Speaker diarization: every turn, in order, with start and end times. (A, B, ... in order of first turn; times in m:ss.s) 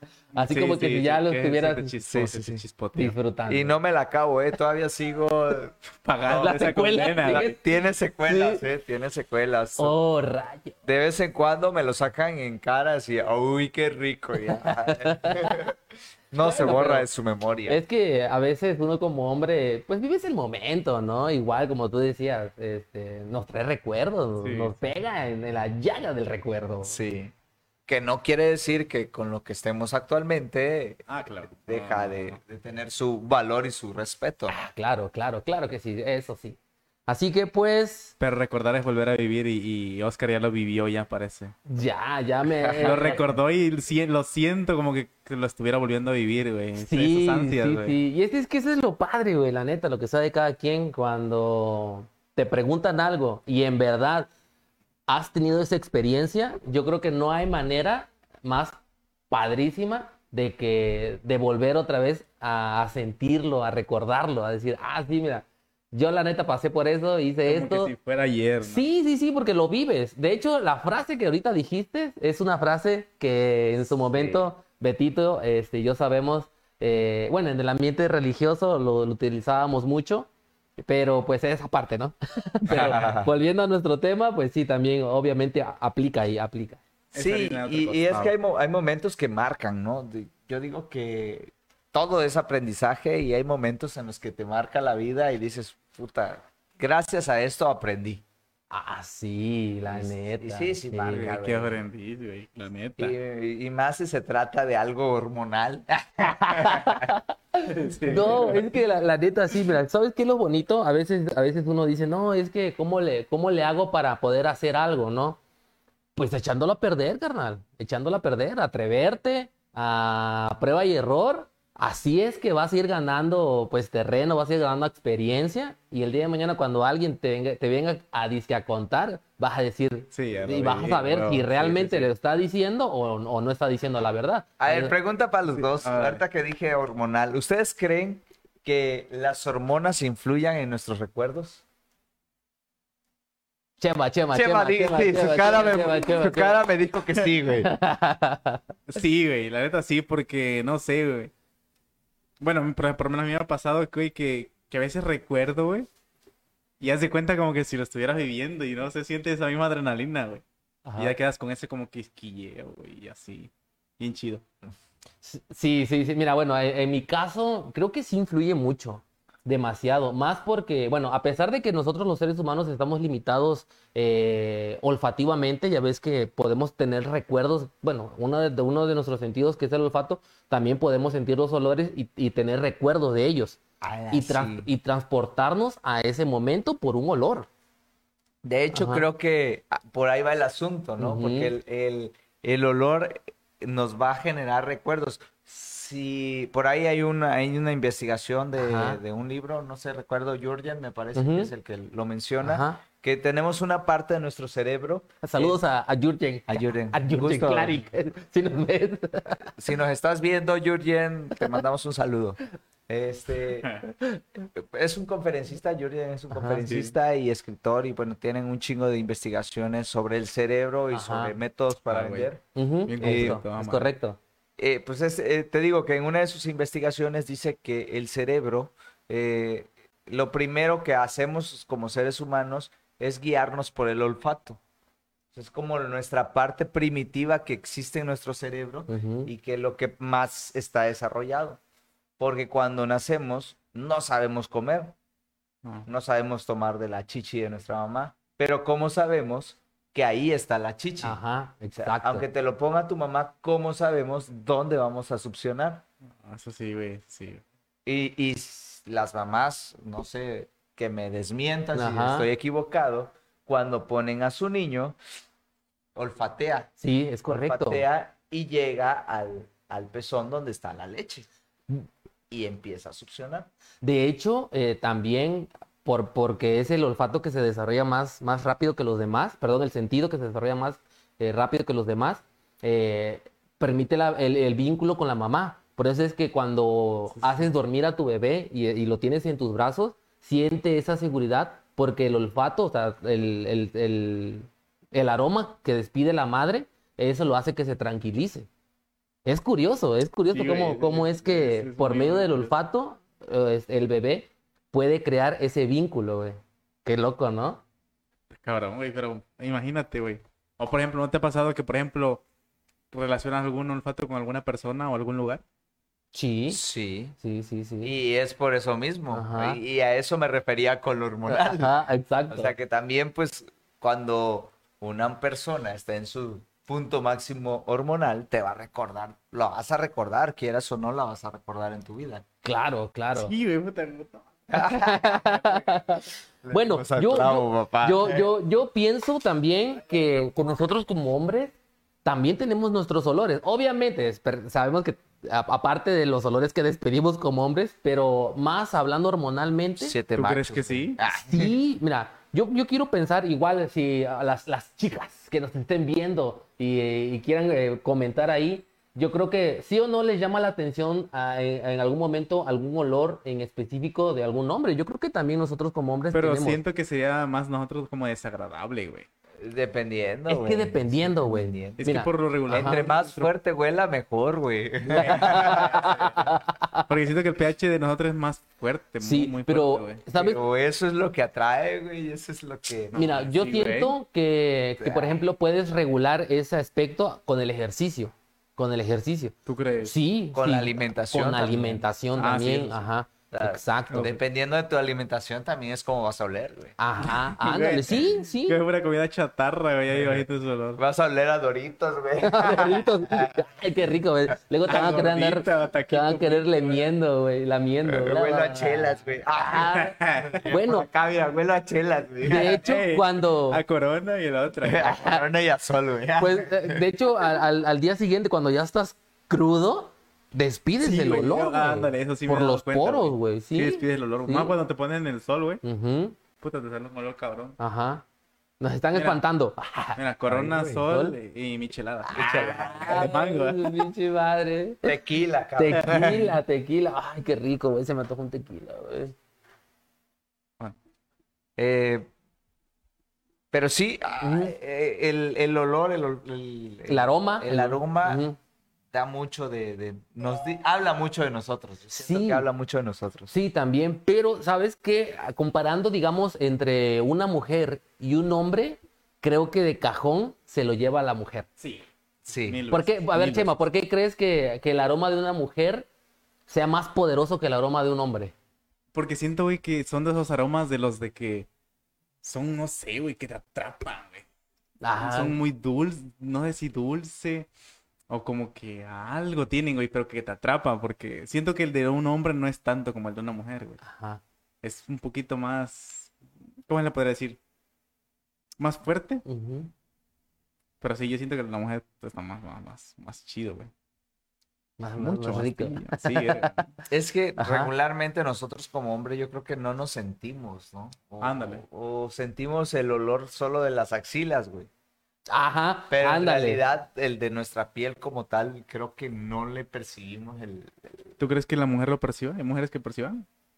0:00.3-0:01.9 A
0:00.4-0:03.2 B
0:02.1-0:02.6 C
0:03.0-0:03.8 A
0:03.5-0:09.9 C
0:06.0-0:07.5 B
0:06.4-0:07.6 A
0:08.3-0:08.6 A
0:09.8-0:10.7 A
0:10.8-0:15.8 C
0:14.6-0:15.6 A
0:16.3-0:17.8 C
0:16.4-0:17.1 A
0:17.7-0:27.0 A
0:24.4-0:24.7 B
0:26.8-0:27.3 C
0:27.9-0:31.1 C
0:31.1-0:32.4 B
0:31.6-0:34.6 C
0:34.5-0:38.1 A
0:38.2-0:41.6 B
0:41.7-0:43.3 A
0:42.5-0:43.2 C
0:42.8-0:48.0 B
0:46.8-0:54.3 A
0:55.1-0:58.8 A
0:59.3-1:07.9 A
1:07.4-1:08.9 B
1:08.6-1:20.3 A
1:20.8-1:26.8 A
1:22.7-1:23.0 B
1:22.7-1:23.3 C
1:27.1-1:28.3 B
1:27.2-1:38.2 C
1:38.7-1:41.3 A
1:39.9-1:41.8 C
1:41.1-1:43.2 B
1:43.0-1:47.1 C
1:46.2-1:55.4 A
1:47.6-1:48.7 B
1:56.2-2:14.9 A
2:10.1-2:12.1 B
2:14.6-2:21.6 C
2:15.5-2:16.2 B
2:23.8-2:26.6 A
2:24.3-2:27.7 C
2:27.6-2:28.6 A
2:28.9-2:31.3 B
2:32.4-2:35.9 B
2:36.8-2:40.4 B
2:40.8-2:41.2 A
2:41.0-2:44.4 B
2:45.2-3:03.6 A
3:03.8-3:04.7 C
3:04.1-3:07.5 A
3:08.4-3:25.6 C
3:08.7-3:09.1 A
3:11.0-3:11.5 A
3:18.6-3:19.0 A
3:21.2-3:21.5 A
3:22.4-3:22.8 A
3:25.2-3:29.5 A
3:26.5-3:27.8 C
3:29.6-3:33.9 C
3:33.6-3:33.9 B
3:34.5-3:42.4 C
3:36.3-3:36.6 A
3:36.7-3:36.9 B
3:40.9-3:41.3 A
3:41.9-3:42.3 B
3:42.6-3:44.2 A
3:42.9-3:43.9 B
3:43.0-3:43.4 C
3:44.6-3:54.6 C
3:55.3-4:01.6 C
3:58.9-3:59.3 A
4:02.2-4:05.0 C
4:05.9-4:11.2 C
4:11.0-4:12.2 A
4:11.7-4:15.8 C
4:16.2-4:17.4 B
4:17.9-4:25.0 C
4:21.7-4:22.3 A
4:26.0-4:26.7 C
4:26.8-4:27.8 A
4:27.3-4:31.3 C
4:32.3-4:33.5 C
4:33.8-4:58.5 A
4:47.2-4:47.5 B
4:59.2-5:07.6 A
5:00.3-5:02.5 B
5:08.3-5:12.2 B
5:12.9-5:15.4 B
5:16.1-5:16.6 A
5:16.5-5:17.2 C
5:17.2-5:17.9 A
5:17.8-5:21.7 C
5:19.1-5:19.6 A
5:21.3-5:22.6 A
5:22.3-5:32.2 C
5:32.4-5:33.3 A
5:33.2-5:34.2 B
5:34.5-5:35.6 C
5:34.6-5:50.0 A
5:36.4-5:38.3 C
5:49.8-5:51.5 C
5:50.2-5:51.0 B
5:51.1-6:06.6 A
6:06.1-6:09.1 B
6:09.4-6:11.9 C
6:10.3-6:12.8 A
6:11.8-6:13.3 B
6:12.5-6:16.1 C
6:14.8-6:16.9 A
6:15.0-6:16.3 B
6:16.9-6:20.0 B
6:19.0-6:20.4 A
6:20.1-6:23.1 C
6:22.9-6:24.0 B
6:23.0-6:34.2 A
6:24.8-6:25.2 C
6:29.5-6:29.9 B
6:30.3-6:31.8 C
6:32.2-6:32.8 B
6:33.3-6:36.8 C
6:36.8-6:38.6 A
6:37.0-6:40.8 B
6:40.8-6:43.4 C
6:42.2-6:49.9 A
6:44.7-6:46.9 B
6:47.9-6:52.6 C
6:49.5-6:50.4 B
6:50.5-6:50.9 A
6:52.2-6:53.6 A
6:52.3-6:55.0 B
6:54.6-6:57.3 C
6:54.8-6:55.2 A
6:56.2-7:04.5 A
7:00.8-7:05.6 B
7:05.6-7:06.2 A
7:06.4-7:07.6 B
7:07.6-7:08.0 A
7:08.6-7:11.2 A
7:08.9-7:09.2 B
7:10.0-7:13.9 B
7:12.1-7:14.9 A
7:12.2-7:13.1 C
7:14.8-7:16.4 C
7:15.6-7:19.2 A
7:21.6-7:22.1 C
7:23.5-7:28.2 C
7:24.2-7:24.6 A
7:26.9-7:28.4 A
7:28.9-7:33.3 C
7:31.9-7:32.5 A
7:33.3-7:41.5 A
7:41.6-7:41.9 B
7:42.3-7:42.6 C
7:42.4-7:43.6 B
7:42.7-7:45.9 A
7:46.5-7:48.3 A
7:48.9-7:51.5 B
7:52.2-7:54.3 B
7:54.8-7:55.4 A
7:55.0-7:57.5 B
7:58.1-8:03.8 B
8:03.8-8:04.2 A
8:04.6-8:06.1 B
8:06.7-8:07.4 B
8:08.6-8:09.2 B
8:09.2-8:09.7 A
8:10.8-8:13.7 B
8:14.8-8:16.5 A
8:15.0-8:16.7 B
8:16.9-8:24.7 C
8:17.4-8:17.7 A
8:21.2-8:21.6 B
8:25.3-8:26.6 A
8:25.9-8:30.8 C
8:31.2-8:33.3 B